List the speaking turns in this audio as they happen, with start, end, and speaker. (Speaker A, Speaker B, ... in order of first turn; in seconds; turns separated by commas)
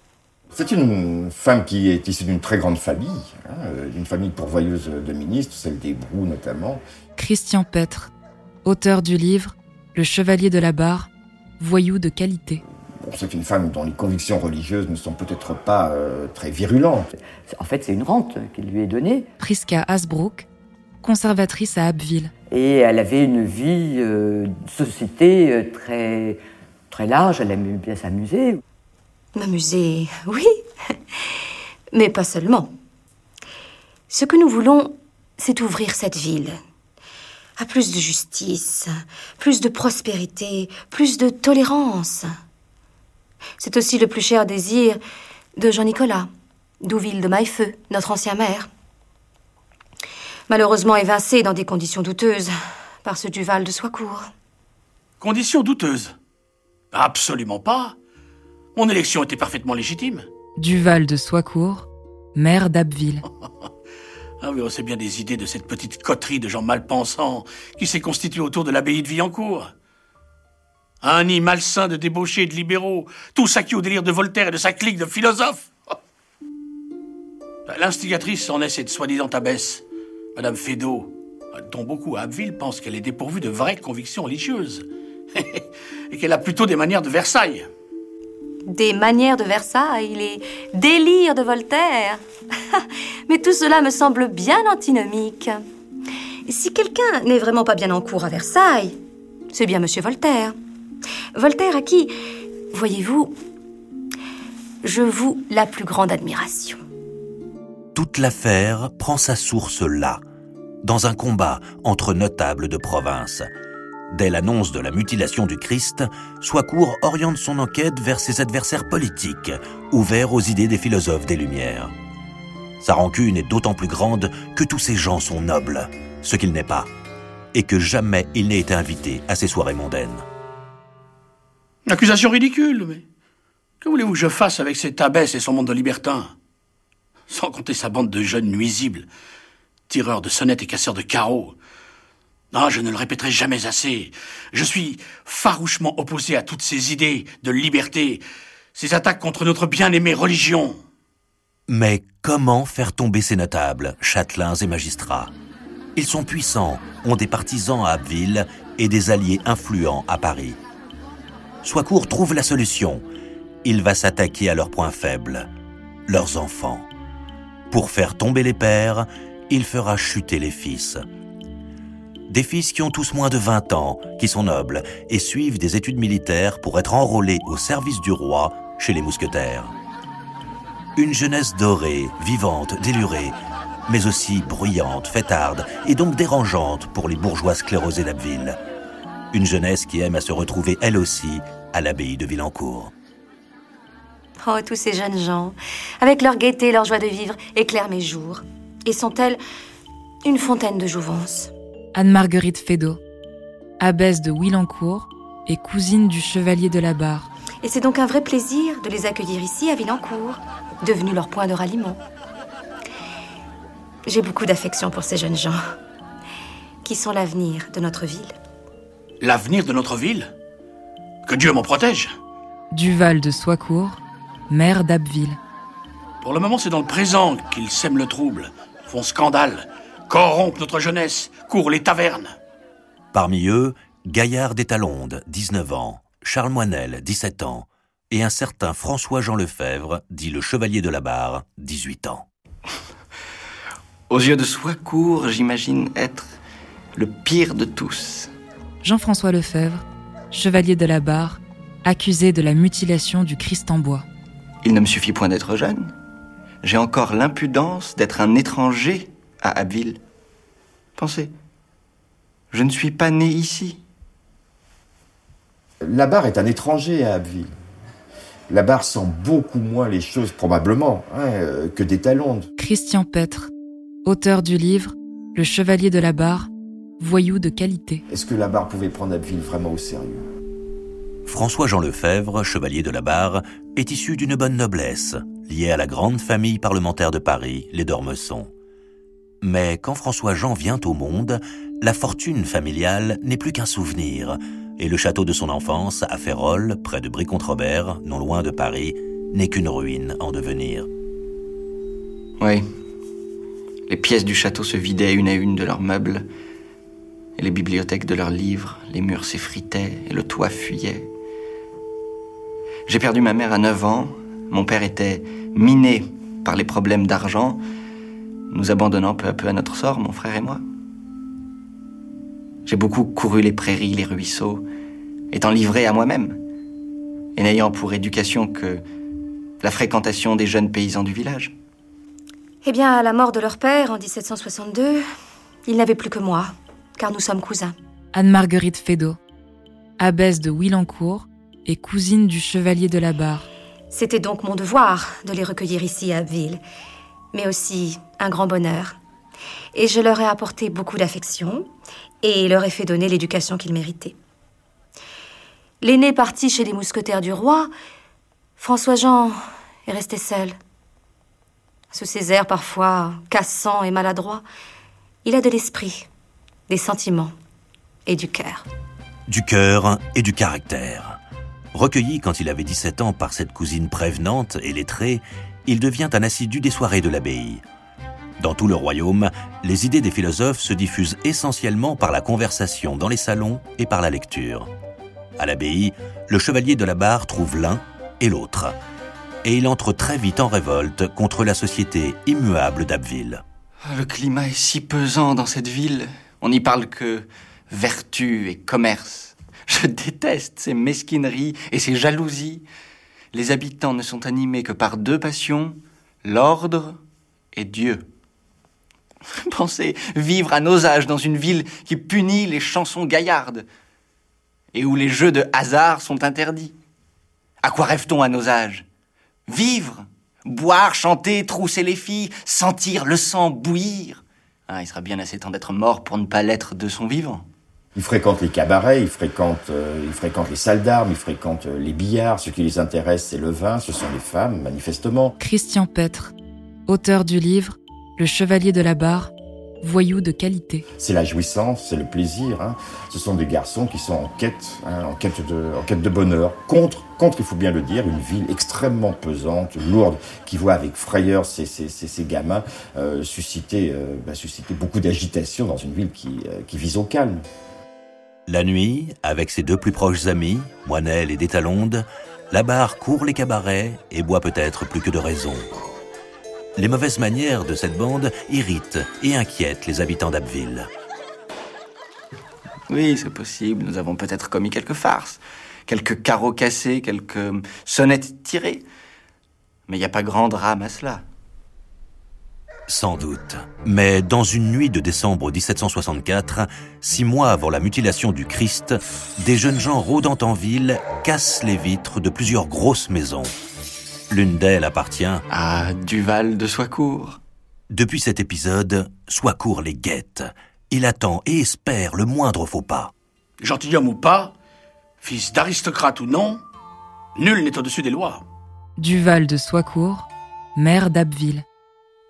Speaker A: 0.5-6.8, Speaker B: 7.2-8.1, Speaker B: 8.6-12.6, Speaker A: 13.0-17.1, Speaker C: 17.5-19.2, Speaker B: 19.4-20.4, Speaker B: 21.0-22.3, Speaker C: 22.5-28.6, Speaker D: 29.3-30.6, Speaker D: 31.9-32.7, Speaker D: 34.1-36.6, Speaker D: 37.6-42.3, Speaker D: 43.6-45.0, Speaker D: 45.5-46.3, Speaker D: 46.8-48.7, Speaker D: 50.5-54.3, Speaker E: 55.2-56.1, Speaker E: 56.9-58.0, Speaker E: 58.7-60.3, Speaker B: 60.6-63.2, Speaker E: 64.4-69.7, Speaker E: 71.0-75.9, Speaker E: 77.7-79.8, Speaker E: 80.3-87.7, Speaker D: 88.7-95.6, Speaker D: 96.5-99.0, Speaker D: 99.5-100.5, Speaker D: 101.3-102.1, Speaker D: 102.7-103.3, Speaker D: 104.8-106.8, Speaker F: 107.9-110.2, Speaker F: 110.8-113.5, Speaker F: 114.1-121.9, Speaker F: 122.8-126.9, Speaker F: 127.5-130.2, Speaker E: 131.8-133.0, Speaker E: 133.8-136.3, Speaker E: 137.3-139.1, Speaker E: 139.9-141.6, Speaker E: 142.5-148.2, Speaker E: 148.7-150.8, Speaker F: 151.7-155.3, Speaker F: 155.9-160.6, Speaker F: 161.6-163.0, Speaker F: 163.6-165.5, Speaker F: 166.1-166.9, Speaker F: 167.7-171.0, Speaker F: 172.3-179.7, Speaker F: 180.9-183.3, Speaker F: 183.9-188.6, Speaker F: 189.3-192.9, Speaker D: 194.4-199.4, Speaker D: 200.2-201.5, Speaker B: 201.9-203.0, Speaker B: 203.8-207.3, Speaker D: 207.6-212.0, Speaker D: 214.1-215.6, Speaker D: 216.8-218.3, Speaker E: 219.2-220.3, Speaker E: 221.2-222.1, Speaker B: 222.7-225.4, Speaker E: 226.2-232.3, Speaker F: 233.1-242.3, Speaker G: 244.1-246.3, Speaker G: 246.9-248.3, Speaker B: 248.8-254.1, Speaker G: 254.6-255.9, Speaker G: 256.6-260.0, Speaker G: 261.0-261.3, Speaker G: 262.5-263.8, Speaker A: 265.8-267.5, Speaker A: 268.5-272.5, Speaker B: 272.6-273.5, Speaker B: 274.0-278.0, Speaker A: 278.1-280.2, Speaker F: 281.2-288.5, Speaker F: 289.4-300.9, Speaker G: 302.4-302.6, Speaker G: 303.9-306.2, Speaker G: 307.4-311.1, Speaker G: 312.9-317.6, Speaker G: 318.5-320.6, Speaker G: 322.6-324.6, Speaker G: 325.3-326.4, Speaker G: 327.3-328.8, Speaker G: 329.6-331.5, Speaker D: 332.6-335.0, Speaker D: 335.6-337.7, Speaker B: 338.1-339.2, Speaker B: 340.0-343.4, Speaker D: 343.9-346.6, Speaker D: 347.3-349.0, Speaker D: 349.7-351.7, Speaker D: 352.2-354.1, Speaker D: 355.8-357.7, Speaker D: 358.6-360.6, Speaker D: 361.9-364.4, Speaker D: 365.2-366.1, Speaker D: 366.7-367.3, Speaker D: 368.1-368.6, Speaker F: 369.3-371.2, Speaker F: 371.7-377.6, Speaker F: 378.4-384.7, Speaker F: 385.4-388.8, Speaker F: 389.4-393.4, Speaker G: 393.8-402.6, Speaker G: 403.3-407.0, Speaker G: 407.5-408.1, Speaker G: 409.4-413.6, Speaker G: 414.7-416.7, Speaker G: 417.6-418.8, Speaker G: 419.5-427.4, Speaker A: 427.9-435.3, Speaker B: 435.4-436.3, Speaker B: 436.9-440.8, Speaker A: 441.0-457.4, Speaker F: 458.5-465.6, Speaker F: 466.8-470.9, Speaker G: 472.9-478.8, Speaker G: 479.9-481.2, Speaker F: 482.9-493.5, Speaker F: 494.3-495.4, Speaker G: 495.5-497.4, Speaker F: 497.9-503.1, Speaker E: 503.6-504.5, Speaker E: 505.2-506.6, Speaker E: 507.4-508.4, Speaker B: 509.0-511.6